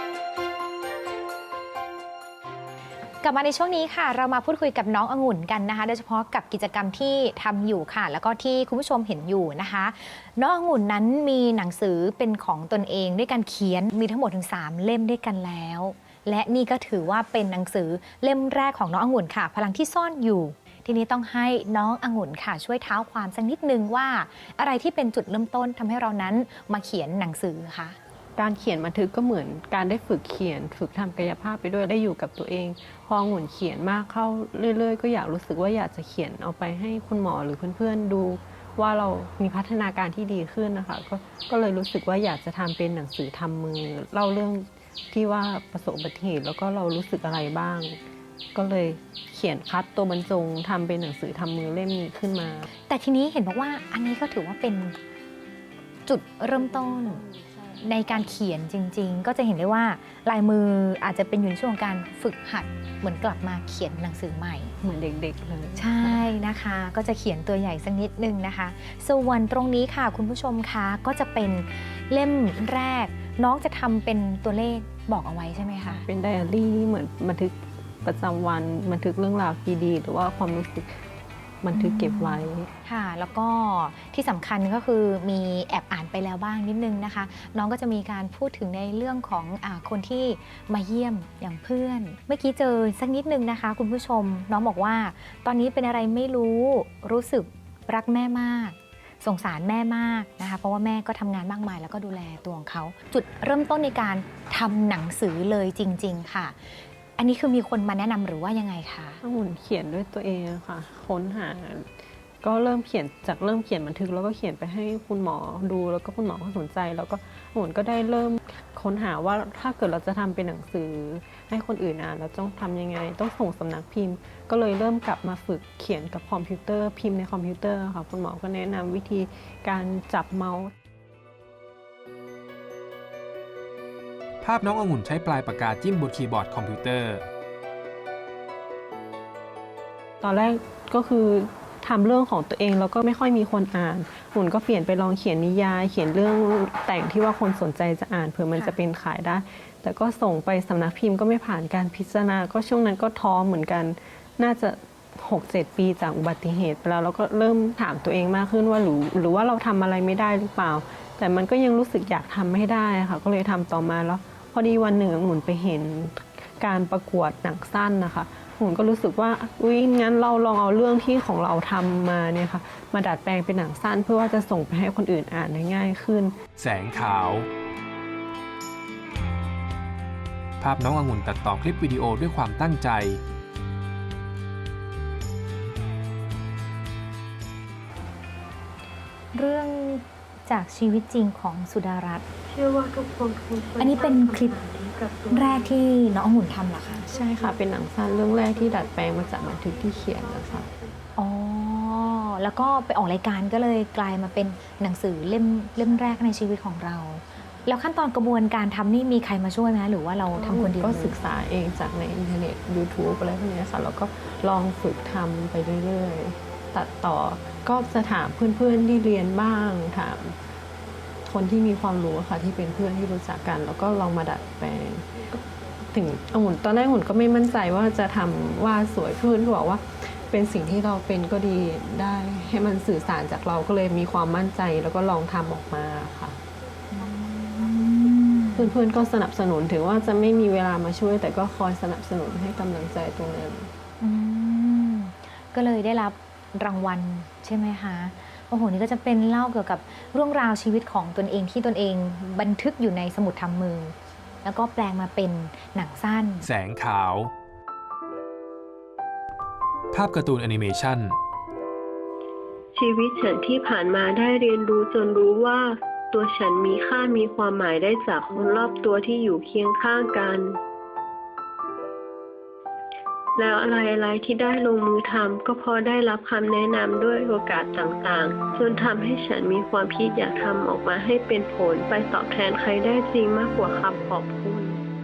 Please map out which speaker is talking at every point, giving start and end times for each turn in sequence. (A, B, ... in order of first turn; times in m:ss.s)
0:03.2-0:28.0 A
0:28.4-0:48.0 B
0:48.5-0:52.7 B
0:52.9-0:55.0 A
0:56.0-0:57.2 A
0:57.8-1:04.7 A
1:04.8-1:06.4 B
1:05.8-1:16.0 A
1:15.9-1:21.0 B
1:21.6-1:22.7 B
1:21.7-1:46.6 A
1:47.2-1:49.2 A
1:49.2-1:51.9 B
1:52.4-2:10.7 B
2:14.4-2:17.2 C
2:20.2-2:56.3 B
2:56.6-2:57.5 C
3:00.6-3:03.2 C
3:09.3-3:12.2 A
3:12.5-3:15.8 D
3:13.8-3:14.6 A
3:15.3-3:17.1 A
3:17.1-3:20.7 B
3:21.2-3:31.1 A
3:30.3-3:40.4 B
3:41.2-3:56.4 B
3:56.9-3:58.7 A
3:58.5-4:03.7 B
4:04.0-4:16.4 A
4:16.4-4:17.3 C
4:19.9-4:21.2 C
4:22.7-4:30.6 D
4:33.4-4:44.8 D